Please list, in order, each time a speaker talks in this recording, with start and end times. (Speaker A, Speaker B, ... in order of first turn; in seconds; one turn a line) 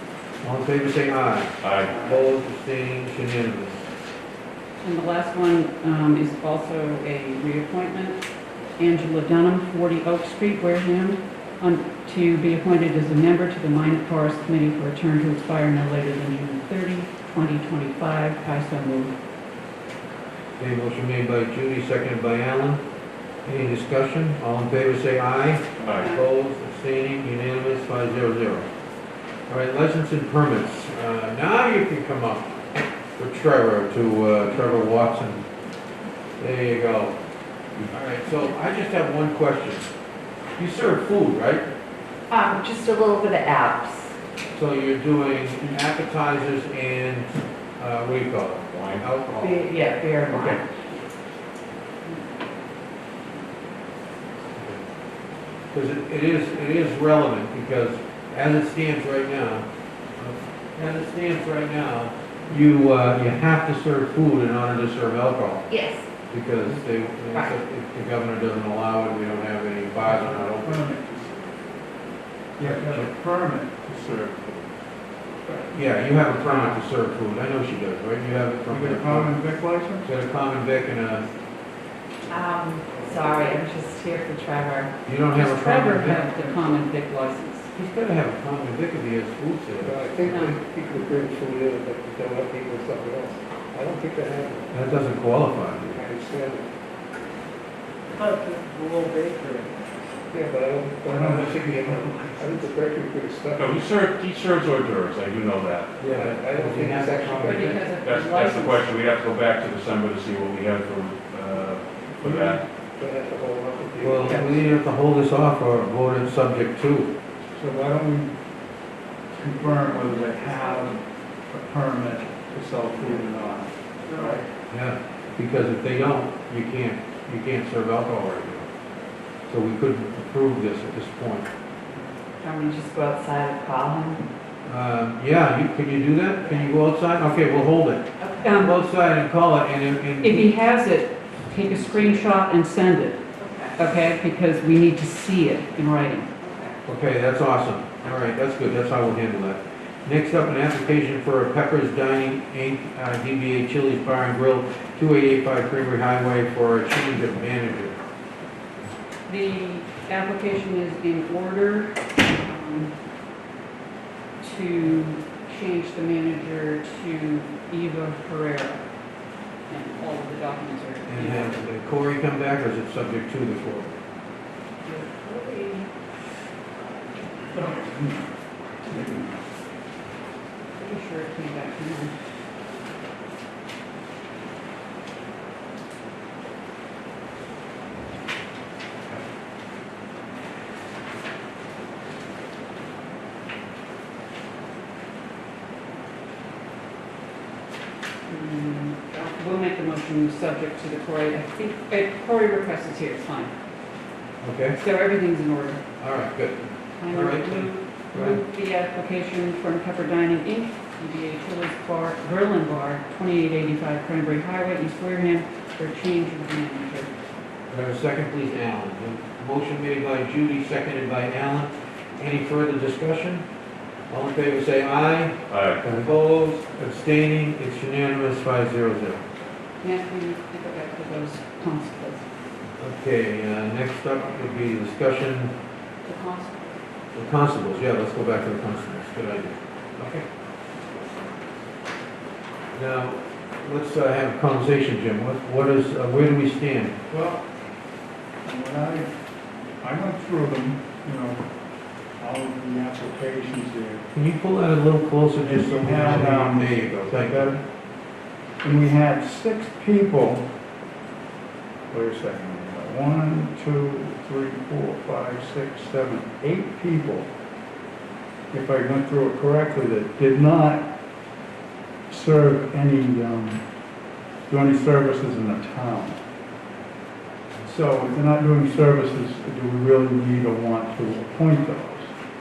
Speaker A: 0.4-3.9
Speaker B: 1.6-1.9
Speaker C: 1.9-2.2
Speaker B: 4.8-8.2
Speaker B: 8.8-19.1
Speaker A: 20.6-22.8
Speaker A: 23.4-28.7
Speaker B: 25.8-26.2
Speaker A: 29.5-32.6
Speaker A: 33.2-35.5
Speaker A: 36.4-37.2
Speaker A: 37.9-39.9
Speaker A: 40.6-41.7
Speaker D: 42.3-44.1
Speaker A: 44.5-49.7
Speaker E: 48.7-49.0
Speaker D: 49.3-50.6
Speaker A: 50.3-50.6
Speaker A: 55.7-59.6
Speaker A: 60.2-65.7
Speaker D: 65.7-66.1
Speaker A: 66.3-70.8
Speaker C: 70.0-71.7
Speaker C: 72.6-74.7
Speaker A: 72.6-73.1
Speaker A: 75.7-79.3
Speaker C: 76.5-76.8
Speaker C: 78.7-80.1
Speaker A: 80.0-81.2
Speaker D: 82.3-85.0
Speaker F: 83.0-83.5
Speaker A: 85.0-86.3
Speaker B: 85.3-87.7
Speaker D: 86.4-86.8
Speaker A: 87.7-90.5
Speaker F: 89.8-94.9
Speaker B: 90.3-90.5
Speaker A: 94.7-96.0
Speaker F: 95.9-96.7
Speaker C: 98.2-99.7
Speaker F: 100.3-103.8
Speaker C: 101.1-102.5
Speaker E: 103.5-106.0
Speaker A: 106.0-107.9
Speaker F: 106.0-107.8
Speaker B: 107.4-109.0
Speaker E: 108.0-112.6
Speaker C: 112.2-112.6
Speaker F: 113.0-114.7
Speaker A: 114.0-117.1
Speaker C: 117.5-118.4
Speaker C: 119.3-124.4
Speaker D: 119.7-120.8
Speaker A: 124.7-128.7
Speaker A: 129.5-131.5
Speaker D: 132.4-134.3
Speaker A: 134.6-140.5
Speaker D: 138.2-138.7
Speaker B: 138.4-138.7
Speaker B: 140.2-143.2
Speaker D: 143.4-143.9
Speaker B: 143.8-146.3
Speaker D: 146.4-146.8
Speaker A: 146.8-158.0
Speaker B: 159.3-162.9
Speaker B: 164.4-168.8
Speaker B: 169.7-171.7
Speaker A: 171.1-174.0
Speaker B: 174.8-175.9
Speaker C: 177.5-179.4
Speaker B: 180.8-182.1
Speaker B: 198.3-203.5
Speaker A: 204.4-204.8
Speaker B: 204.8-205.8
Speaker A: 206.0-208.4
Speaker B: 207.0-217.1
Speaker A: 217.7-223.4
Speaker A: 224.1-229.2
Speaker B: 225.5-225.8
Speaker B: 229.8-232.2
Speaker A: 232.8-235.5
Speaker B: 236.0-236.7
Speaker A: 237.1-240.2
Speaker A: 242.7-247.0
Speaker C: 247.1-247.4
Speaker C: 248.4-249.2
Speaker C: 249.8-251.5
Speaker C: 252.2-254.0
Speaker A: 254.1-257.5
Speaker C: 255.4-257.6
Speaker C: 258.6-260.5
Speaker C: 261.9-267.3
Speaker C: 268.5-270.9
Speaker C: 272.1-273.6
Speaker C: 274.5-276.2
Speaker C: 277.6-282.1